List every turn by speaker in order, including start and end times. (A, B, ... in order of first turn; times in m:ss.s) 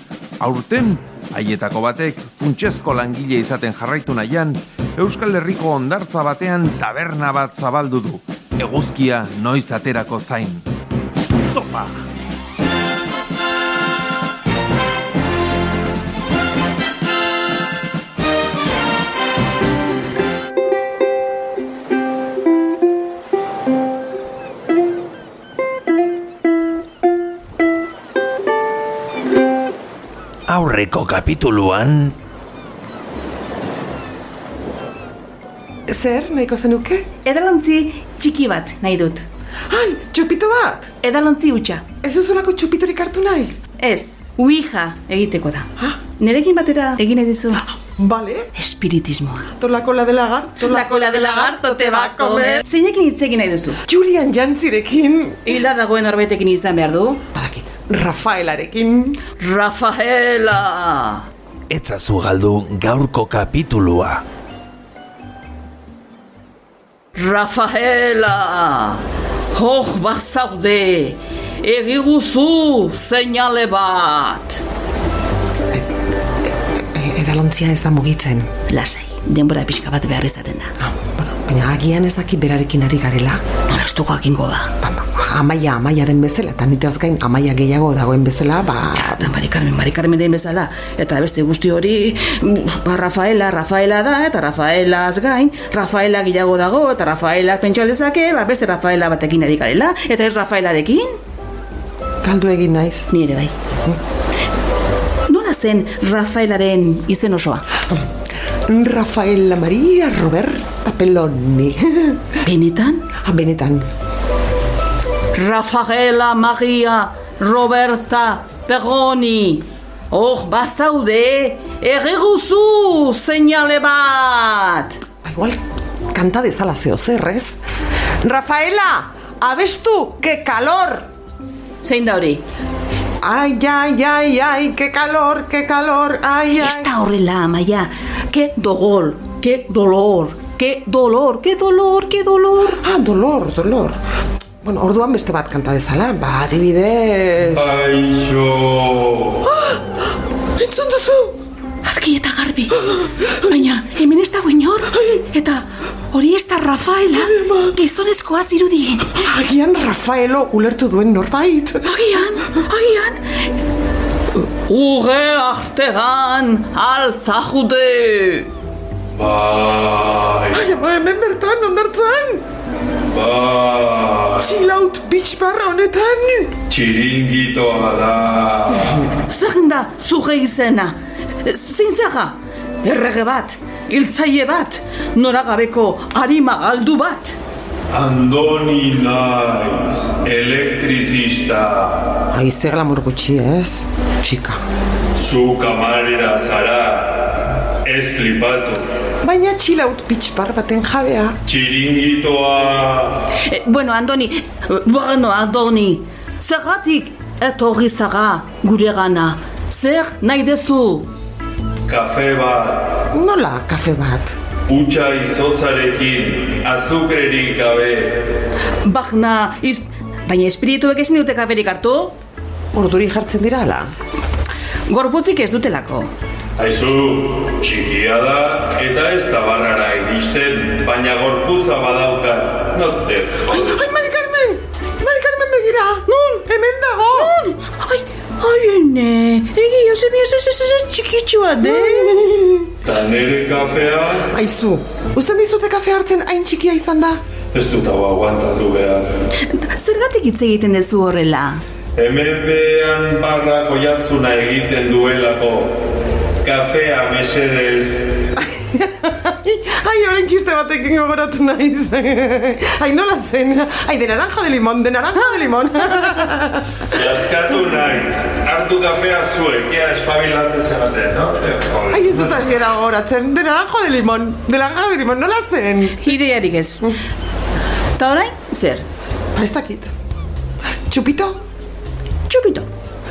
0:00.4-0:10.6 A
0:11.5-0:12.0 A
0:30.6-0:31.9 B
0:30.9-0:32.1 A
0:35.9-0:37.1 C
0:37.2-0:39.2 D
0:39.7-0:40.9 C
0:41.0-0:41.8 D
0:42.0-0:43.6 C
0:43.8-0:47.6 D
0:47.7-0:48.5 C
0:48.5-0:49.5 D
0:49.6-0:52.6 C
0:50.6-0:53.8 D
0:53.8-0:55.4 C
0:55.4-0:57.2 D
0:57.3-0:59.2 C
0:59.3-1:01.3 D
1:01.8-1:04.2 B
1:07.1-1:14.6 D
1:16.9-1:18.5 C
1:18.7-1:20.7 D
1:20.8-1:23.4 C
1:23.7-1:24.7 D
1:24.8-1:29.3 C
1:29.0-1:41.2 D
1:42.2-1:43.1 C
1:43.1-1:43.5 D
1:45.3-1:47.6 D
1:48.7-1:52.3 C
1:52.4-1:53.0 D
1:53.2-1:53.8 C
1:55.3-2:05.0 D
2:05.2-2:05.6 C
2:06.1-2:07.5 C
2:08.2-2:11.1 C
2:11.8-2:12.4 D
2:13.2-2:16.9 C
2:16.6-2:22.8 D
2:22.8-2:24.0 C
2:24.6-2:27.7 C
2:27.5-2:29.4 E
2:29.5-2:29.8 C
2:30.6-2:31.4 C
2:31.8-2:39.1 D
2:39.1-2:41.9 C
2:41.8-2:43.5 D
2:44.3-2:48.5 D
2:49.1-2:50.6 E
2:50.5-2:52.4 C
2:53.1-2:54.5 E
2:54.4-2:56.5 C
2:56.7-2:59.0 E
2:59.2-3:07.4 D
3:07.9-3:12.2 E
3:12.3-3:14.6 C
3:15.1-3:18.8 E
3:19.2-3:21.4 C
3:21.4-3:23.2 E
3:23.3-3:31.1 D
3:31.8-3:33.0 E
3:33.1-3:34.3 C
3:34.7-3:38.3 E
3:38.8-3:42.2 D
3:42.7-3:43.9 C
3:44.9-3:46.1 D
3:46.6-3:53.8 E
3:53.5-3:57.3 C
3:56.1-3:56.4 D
3:57.1-4:02.4 D
4:01.6-4:02.6 C
4:02.8-4:04.3 E
4:04.3-4:07.2 C
4:07.5-4:09.1 E
4:09.4-4:11.6 D
4:12.0-4:15.8 E
4:16.4-4:18.2 E
4:18.4-4:26.8 C
4:26.9-4:28.4 E
4:28.4-4:29.0 A
4:29.0-4:32.4 E
4:31.9-4:36.1 C
4:36.0-4:36.9 D
4:37.9-4:38.8 D
4:39.3-4:39.9 C
4:40.9-4:41.4 C
4:42.3-4:42.7 D